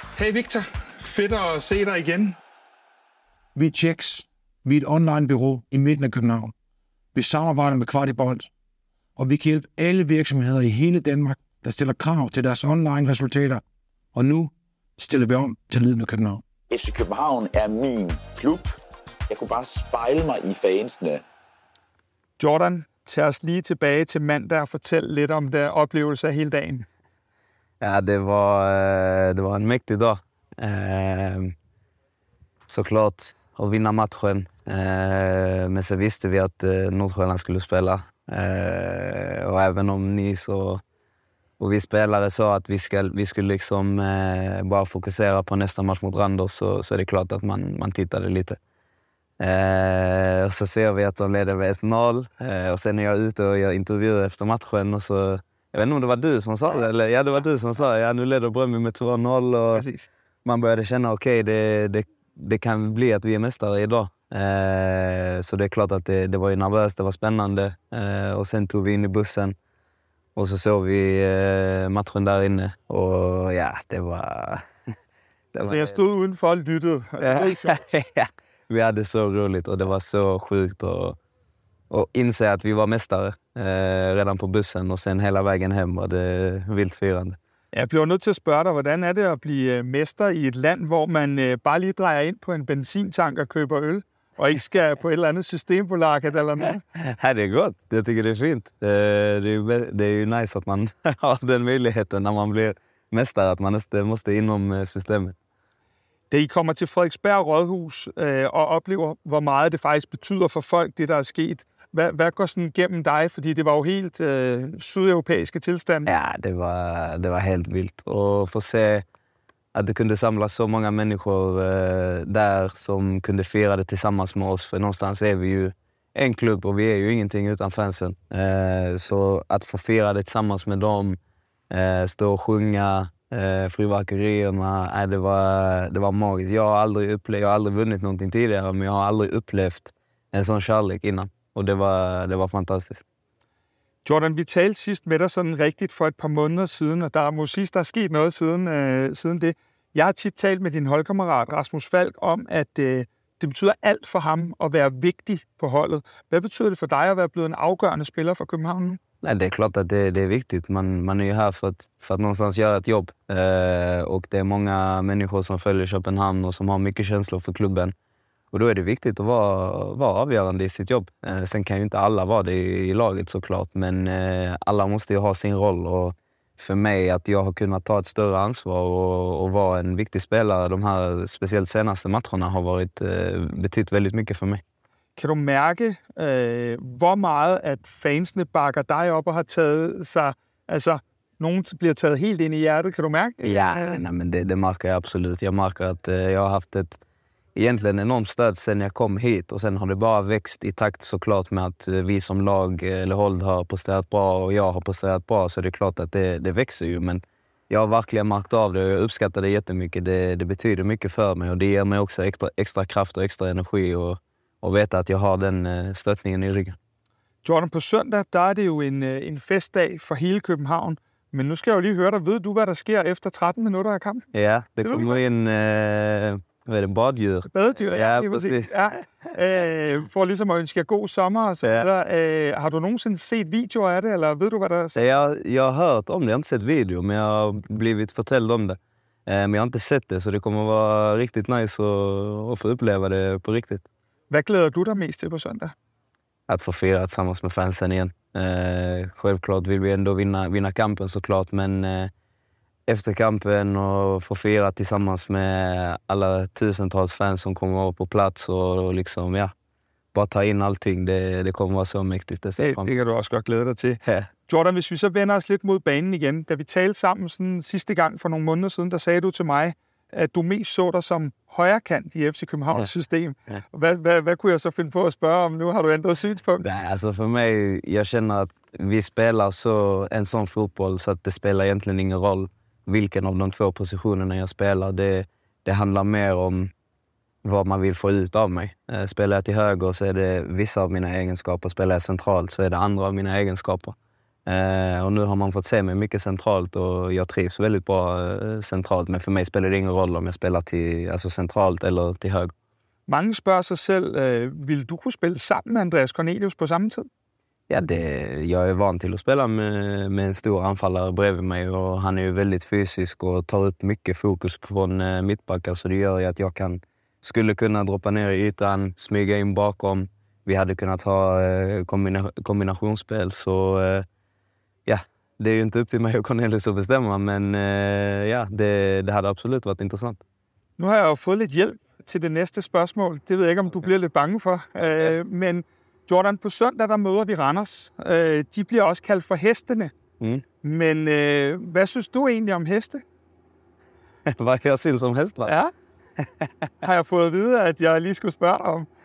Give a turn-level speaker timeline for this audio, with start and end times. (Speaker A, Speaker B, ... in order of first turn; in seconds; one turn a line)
Speaker A: 0.1-2.4
Speaker B: 3.5-6.5
Speaker B: 7.1-8.5
Speaker B: 9.2-13.6
Speaker B: 14.1-16.4
Speaker C: 16.7-18.7
Speaker C: 19.3-21.2
Speaker A: 22.4-26.9
Speaker D: 27.8-31.5
Speaker D: 32.7-40.8
Speaker D: 41.6-48.6
Speaker D: 49.4-59.9
Speaker A: 59.7-60.0
Speaker D: 60.4-69.5
Speaker D: 70.3-74.9
Speaker D: 75.5-76.0
Speaker A: 75.7-77.8
Speaker D: 77.2-81.2
Speaker D: 81.9-87.4
Speaker A: 87.7-96.8
Speaker D: 96.9-105.3
Speaker A: 106.3-116.1
Speaker D: 116.0-119.0
Speaker D: 119.7-131.2
Speaker D: 131.7-143.0
Speaker A: 144.0-159.0
Speaker D: 159.2-167.9
Speaker D: 168.5-184.6
Speaker A: 185.2-194.0
Speaker D: 193.4-197.0
Speaker D: 197.6-216.8
Speaker A: 217.4-224.2
Speaker D: 224.3-228.7
Speaker A: 224.8-225.2
Speaker A: 227.5-235.0
Speaker D: 231.6-231.9
Speaker D: 234.9-243.8
Speaker A: 244.3-245.7
Speaker D: 246.5-252.1
Speaker D: 252.9-259.5
Speaker D: 260.1-262.9
Speaker A: 262.6-276.6
Speaker D: 264.0-264.3
Speaker D: 276.6-286.7
Speaker D: 287.4-293.9
Speaker D: 294.4-302.5
Speaker A: 303.1-307.1
Speaker D: 307.7-324.0
Speaker D: 324.9-330.2
Speaker A: 330.8-339.9
Speaker A: 340.6-343.0
Speaker D: 344.3-345.5
Speaker A: 345.4-345.7
Speaker A: 346.8-348.9